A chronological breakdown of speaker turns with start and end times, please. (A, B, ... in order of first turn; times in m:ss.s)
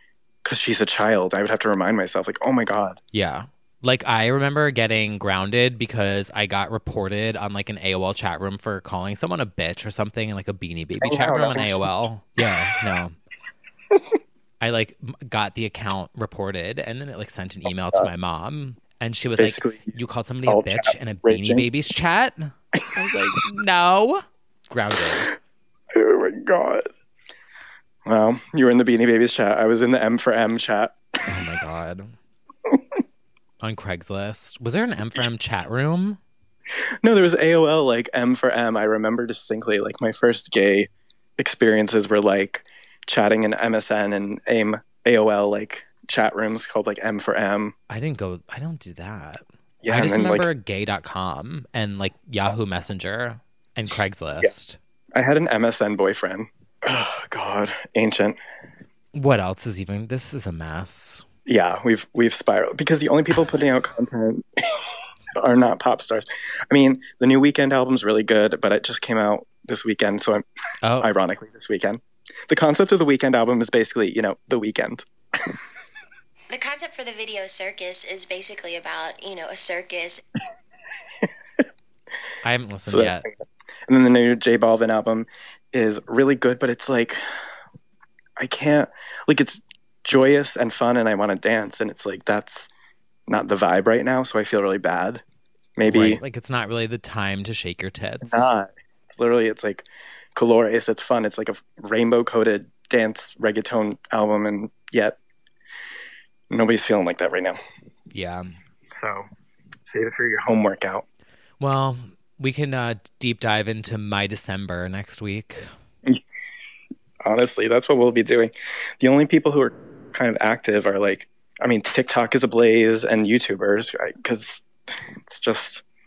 0:00.4-0:03.0 A
0:03.1-0:13.1 B
0:11.0-0:11.9 A
0:14.6-0:25.3 B
0:19.4-0:20.0 A
0:20.5-0:21.7 A
0:25.9-0:26.9 A
0:28.0-0:30.9 A
0:31.3-0:32.1 B
0:33.6-0:36.2 B
0:37.0-0:47.7 A
0:47.9-0:54.8 B
0:49.8-0:50.5 A
0:55.1-0:58.4 A
0:59.1-1:01.2 B
1:01.5-1:04.4 A
1:05.4-1:10.4 A
1:10.8-1:11.1 B
1:11.0-1:15.0 A
1:16.5-1:20.2 C
1:22.4-1:23.2 B
1:22.9-1:23.4 A
1:23.9-1:27.2 A
1:28.4-1:32.7 A
1:33.3-1:35.2 A
1:35.8-1:36.2 A
1:35.8-1:38.5 B
1:38.2-1:45.2 A
1:46.5-1:47.6 A
1:48.1-1:48.6 B
1:49.0-1:49.2 A
1:49.9-1:51.0 A
1:51.6-1:55.7 B
1:57.2-2:04.6 A
2:05.3-2:05.8 A